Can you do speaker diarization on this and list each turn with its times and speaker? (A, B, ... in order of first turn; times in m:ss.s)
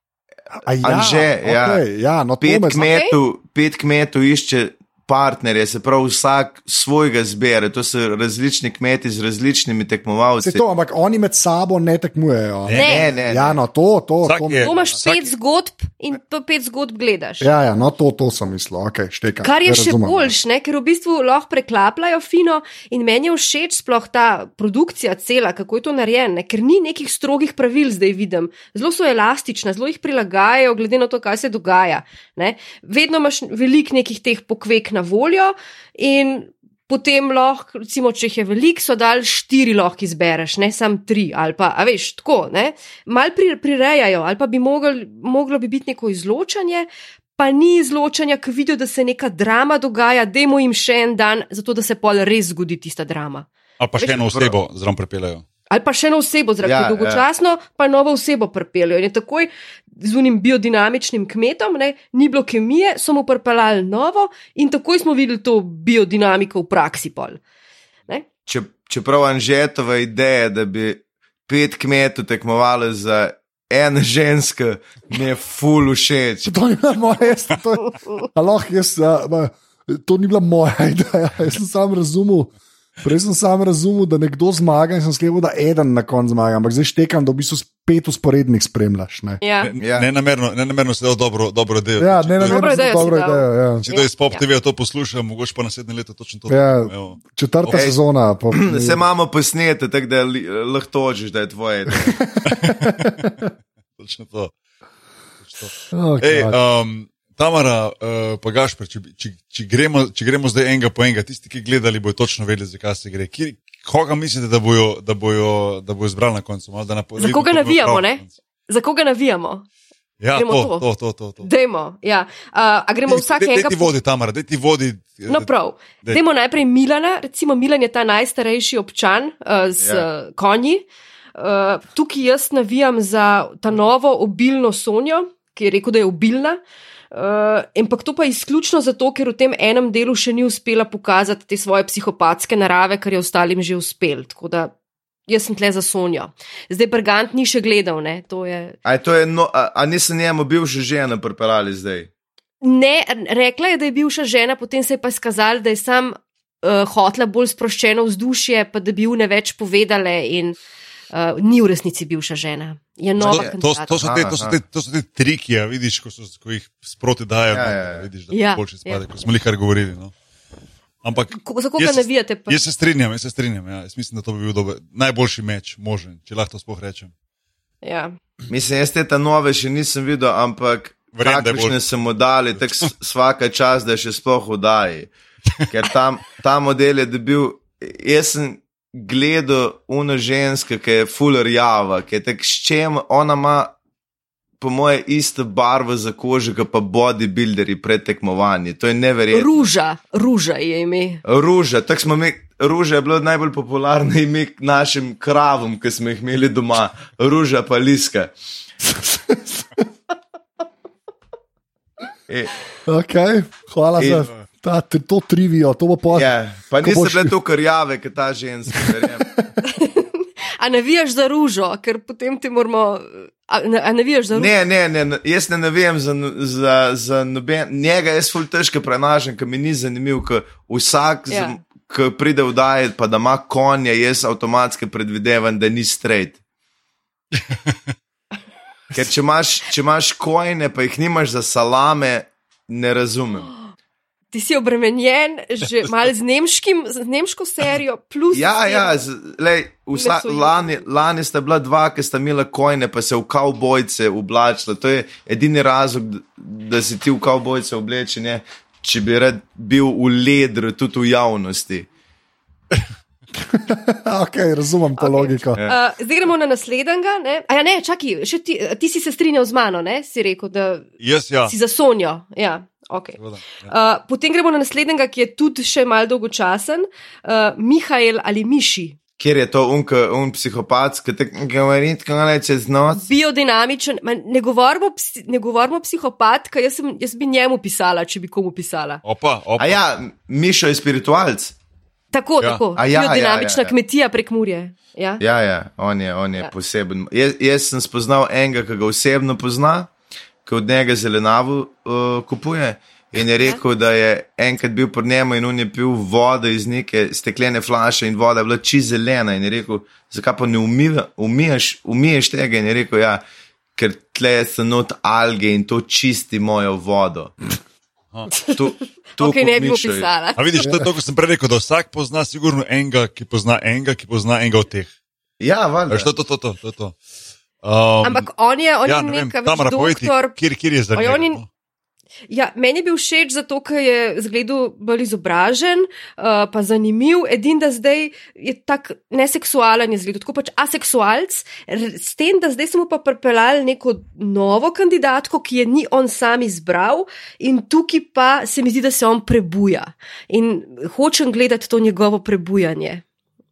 0:00.6-0:02.9 A
0:00.8-0:01.8 B
0:02.4-0:10.6 B
0:02.7-0:03.2 C
0:10.4-0:14.7 A
0:12.6-0:13.0 D
0:12.7-0:13.1 C
0:12.8-0:13.6 B
0:14.2-0:15.3 D
0:14.6-0:17.5 C
0:17.4-0:20.3 A
0:19.4-0:53.4 C
0:53.8-0:55.4 D
0:54.2-0:54.5 B
0:55.7-1:07.4 C
0:56.6-0:57.2 B
1:08.5-1:16.5 B
1:16.4-1:29.4 A
1:29.4-1:29.7 C
1:29.6-1:33.2 D
1:29.8-1:30.1 B
1:32.0-1:33.8 A
1:32.4-1:34.4 C
1:33.8-1:37.9 D
1:36.5-1:39.0 A
1:38.5-1:42.2 B
1:42.0-1:43.3 A
1:42.4-1:43.2 D
1:44.0-1:44.5 D
1:45.4-1:58.3 D
1:45.9-1:46.6 A
1:57.2-1:59.6 C
2:00.2-2:01.5 D
2:00.4-2:00.9 C
2:01.4-2:03.9 C
2:03.1-2:05.5 D
2:05.3-2:10.8 C
2:09.8-2:10.0 B
2:11.4-2:16.6 C
2:17.1-2:24.7 C
2:25.3-2:28.8 C
2:28.8-2:32.1 B
2:32.6-2:40.6 C
2:41.1-2:44.1 C
2:43.2-2:50.1 D
2:43.2-2:44.6 B
2:47.5-2:48.1 B
2:48.3-2:49.0 C
2:51.0-2:57.1 D
2:51.3-2:52.6 C
2:57.8-2:58.2 C
2:58.5-3:05.1 B
3:01.1-3:01.8 D
3:05.7-3:13.7 B
3:14.6-3:19.5 B
3:19.3-3:21.2 C
3:21.2-3:28.3 B
3:28.8-3:29.8 A
3:32.3-3:32.5 B
3:32.8-3:37.3 A
3:34.0-3:34.3 B
3:36.1-3:39.3 B
3:39.0-3:39.4 A
3:39.6-3:44.5 C
3:44.3-3:56.4 B
3:51.3-3:51.6 C
3:57.4-3:57.8 D
3:58.9-4:03.5 B
4:04.3-4:08.9 C
4:08.3-4:21.9 B
4:09.9-4:10.8 C
4:23.5-4:25.6 A
4:25.0-4:30.9 C
4:31.0-4:31.5 D
4:31.5-4:39.0 C
4:33.2-4:33.7 D
4:39.2-4:43.0 B
4:42.9-4:49.0 C
4:49.0-4:49.8 D
4:49.6-4:51.5 B
4:52.1-4:55.2 C
4:52.7-4:53.7 B
4:55.2-4:59.9 B
5:00.4-5:13.2 B
5:13.8-5:17.3 B
5:18.5-5:20.1 B
5:19.2-5:20.7 C
5:20.4-5:24.9 D
5:25.4-5:26.1 B
5:25.9-5:27.0 D
5:27.6-5:28.3 D
5:28.0-5:30.4 C
5:28.8-5:31.4 D
5:30.9-5:31.4 C
5:32.3-5:53.0 C